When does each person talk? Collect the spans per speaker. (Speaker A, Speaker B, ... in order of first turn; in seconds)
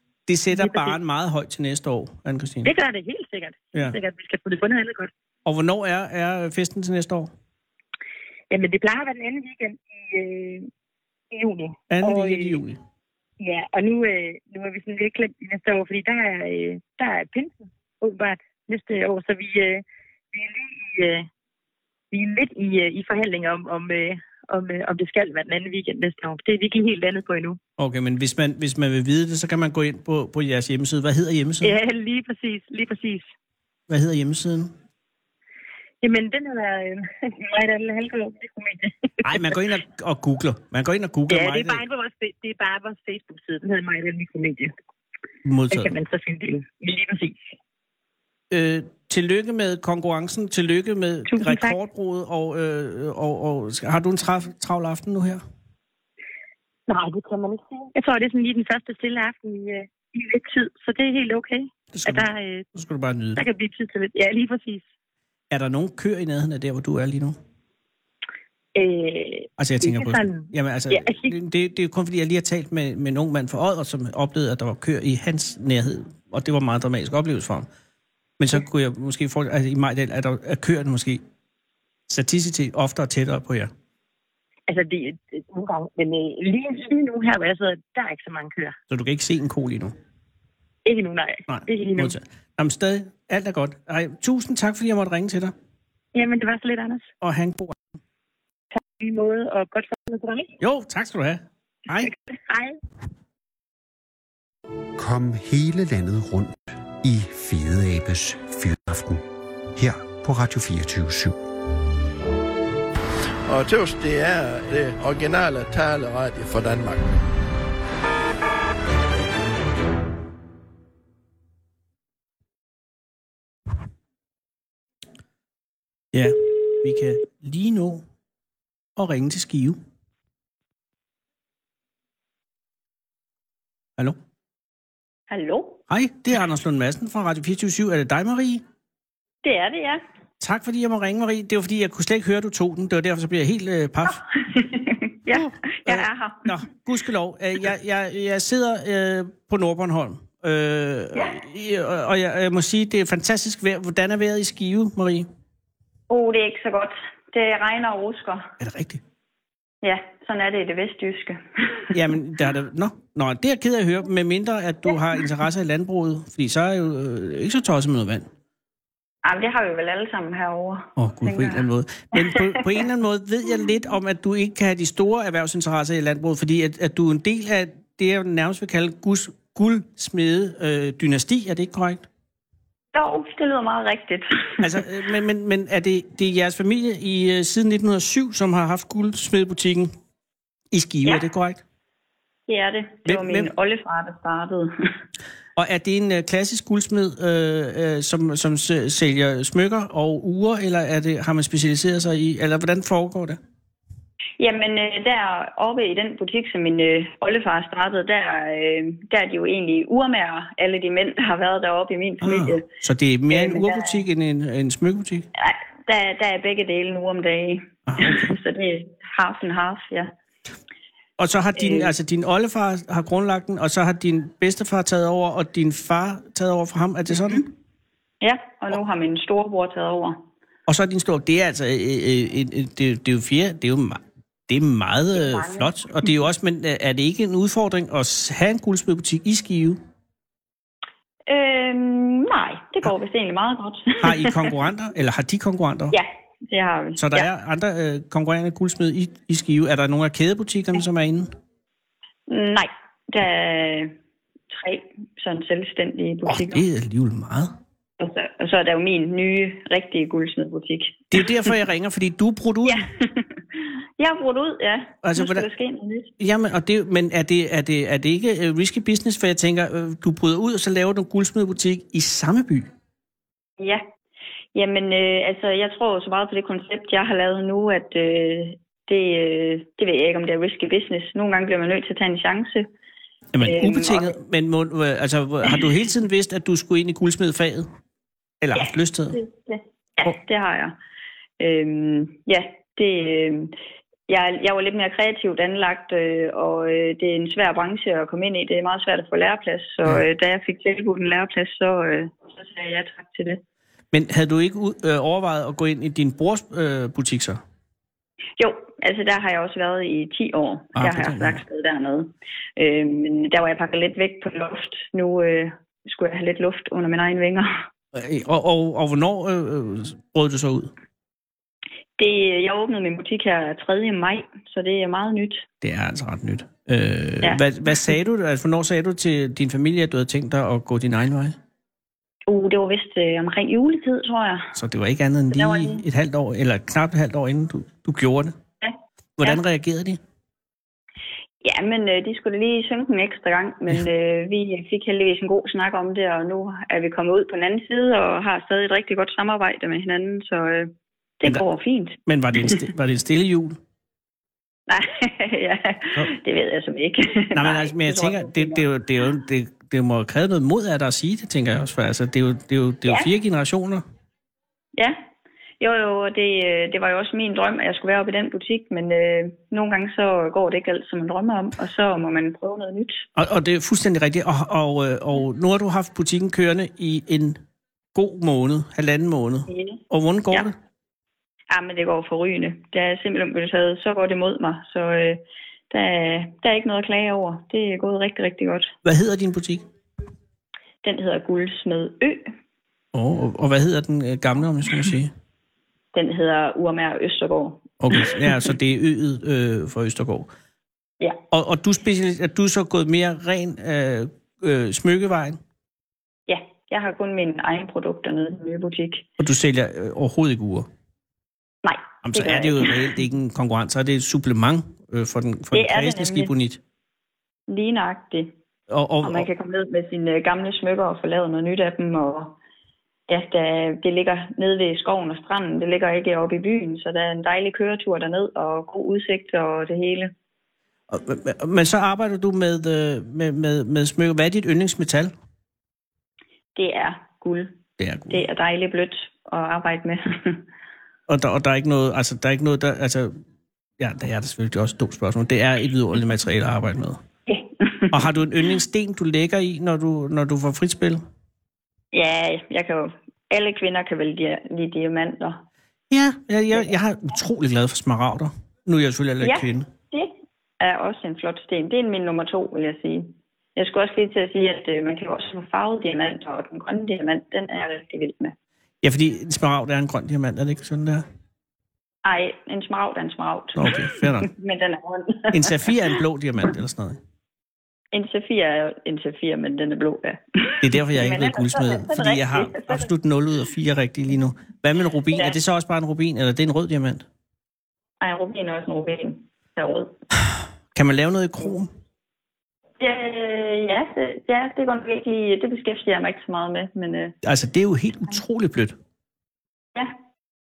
Speaker A: 0.3-2.7, 5.4-7.3, 11.9-12.8, 27.8-31.7, 33.9-34.7, 39.2-41.8, 45.4-45.9, 48.5-55.4, 61.9-63.4, 65.5-67.4, 69.6-77.7, 78.4-81.2, 82.1-83.7, 88.9-89.9, 91.5-95.5, 97.2-97.8, 100.6-102.1, 126.1-128.0, 128.9-129.8, 135.9-138.6, 140.4-144.2, 145.3-155.3, 158.6-159.0, 161.9-168.3, 171.0-182.1, 184.6-189.9, 190.7-191.6, 193.1-193.5, 195.6-203.4, 212.2-215.3, 217.9-218.3, 221.2-227.5, 230.7-239.8, 244.0-245.9, 247.0-251.3, 256.2-257.5, 261.1-262.9, 265.0-265.4, 266.2-272.7, 283.3-287.7, 288.4-289.2, 303.9-307.4, 310.8-311.4, 317.9-320.7, 325.6-331.4, 334.5-338.4, 339.2-340.0, 352.1-353.6, 357.4-363.8, 373.1-377.4, 377.9-380.5, 388.8-389.6, 392.9-395.1, 397.8-400.3, 401.3-405.4, 409.2-410.7, 412.0-416.6, 418.7-419.3, 430.9-435.1, 437.8-438.2, 441.1-443.1, 443.8-447.0, 447.9-451.0, 455.9-459.7, 468.8-471.0, 473.6-474.3, 475.3-477.0, 480.6-487.0, 490.7-491.7, 497.2-498.8
Speaker B: 0.5-1.0, 2.6-5.1, 8.5-10.7, 11.3-12.6, 13.4-21.3, 22.1-27.6, 31.6-33.3, 36.0-39.6, 41.3-44.7, 45.7-47.5, 51.3-51.8, 56.9-62.7, 63.4-64.9, 68.7-71.3, 84.7-88.8, 90.8-92.2, 96.1-97.1, 98.7-100.5, 101.9-102.8
Speaker C: 105.0-111.4
Speaker D: 113.5-117.1
Speaker E: 135.3-135.8, 139.4-140.0, 144.1-146.6, 156.1-158.5, 159.8-161.9, 169.2-171.6, 172.2-172.9, 182.9-184.8, 192.5-194.9, 204.4-212.7, 213.3-214.0, 215.3-220.1, 221.6-221.9, 228.2-230.2, 235.3-235.7, 241.3-244.6, 245.9-247.3, 252.3-253.9, 254.5-256.6, 258.0-261.5, 262.6-266.1, 273.6-273.8, 274.5-282.7, 283.4-284.2, 288.5-290.8, 291.4-293.5, 294.1-303.4, 308.4-317.5, 322.0-325.4, 327.2-327.9, 332.3-334.5, 335.3-335.8, 338.6-339.4, 341.4-352.6, 354.7-358.7, 365.6-373.1, 379.5-379.8, 381.5-388.7, 390.8-392.3, 395.9-398.5, 406.3-409.1, 411.6-413.0, 415.5-416.3, 417.5-418.3, 419.0-422.4, 423.1-430.1, 436.6-437.6, 438.1-440.4, 447.3-448.6, 451.9-455.4, 459.2-468.3, 472.0-476.0, 477.9-482.9, 485.1-485.4, 488.0-489.9, 492.8-497.1